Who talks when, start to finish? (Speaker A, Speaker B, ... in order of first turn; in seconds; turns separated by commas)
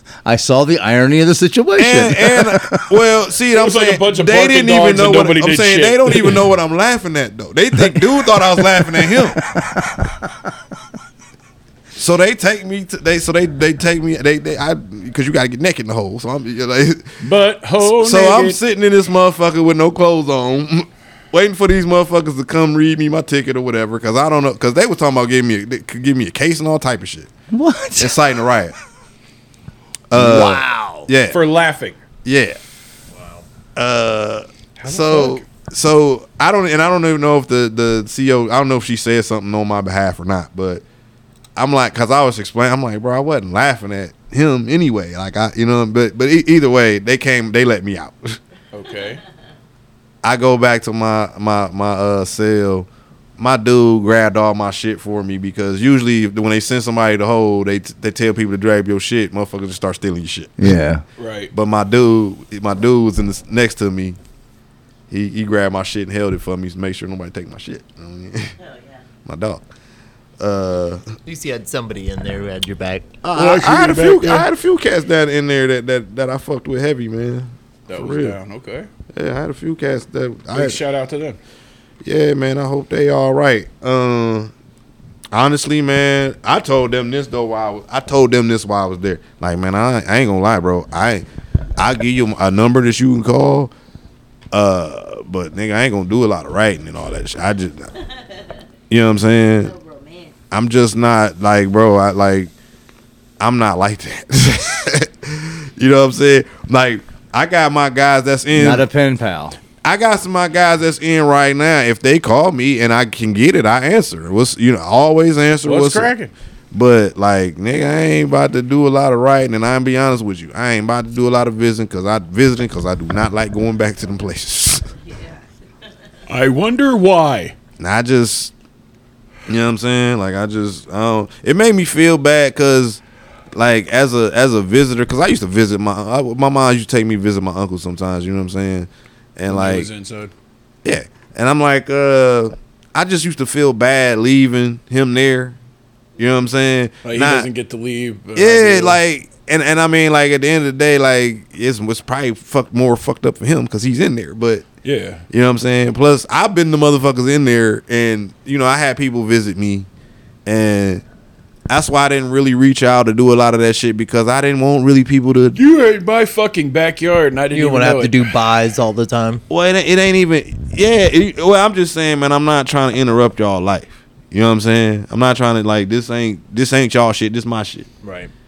Speaker A: 0.2-2.9, Speaker B: 1.8-9.4, Speaker C: 3.5-6.4, Speaker A: 7.9-10.4, Speaker B: 11.9-17.2, Speaker C: 17.2-18.6, Speaker B: 17.8-27.3, Speaker A: 27.5-28.2, Speaker B: 28.0-28.7, Speaker B: 30.1-31.4, Speaker A: 30.1-31.1, Speaker C: 31.3-32.0, Speaker B: 32.2-32.6, Speaker B: 33.8-40.8, Speaker C: 34.8-35.4, Speaker B: 41.5-48.4, Speaker C: 48.7-49.2, Speaker B: 50.2-60.8, Speaker A: 60.6-61.0, Speaker C: 61.2-61.5, Speaker B: 61.5-64.2, Speaker B: 65.1-68.5, Speaker D: 68.6-69.0, Speaker B: 69.2-69.6, Speaker B: 70.4-71.1, Speaker E: 71.2-73.1, Speaker B: 73.2-78.4, Speaker C: 73.3-74.5, Speaker C: 77.9-78.9, Speaker B: 79.1-80.8, Speaker C: 80.5-81.4, Speaker B: 82.0-84.5, Speaker B: 85.3-91.2, Speaker B: 91.8-93.7, Speaker B: 94.5-97.9, Speaker D: 98.1-98.5, Speaker B: 98.9-99.7, Speaker D: 99.6-100.3, Speaker B: 100.5-102.5, Speaker B: 103.4-108.9, Speaker A: 108.5-109.6, Speaker B: 109.8-116.1, Speaker C: 115.5-116.3, Speaker B: 116.7-124.9, Speaker D: 125.0-125.9, Speaker C: 126.3-127.5, Speaker B: 127.8-128.5, Speaker B: 129.5-133.0, Speaker B: 133.5-139.9, Speaker C: 139.5-140.3, Speaker B: 140.8-145.6, Speaker B: 146.2-147.5, Speaker C: 147.0-149.0, Speaker B: 148.3-154.6, Speaker C: 154.8-155.2, Speaker B: 155.3-159.9, Speaker B: 160.4-161.0, Speaker B: 161.7-165.6, Speaker C: 165.5-168.2, Speaker E: 167.5-169.4, Speaker B: 169.5-177.9, Speaker C: 178.0-178.3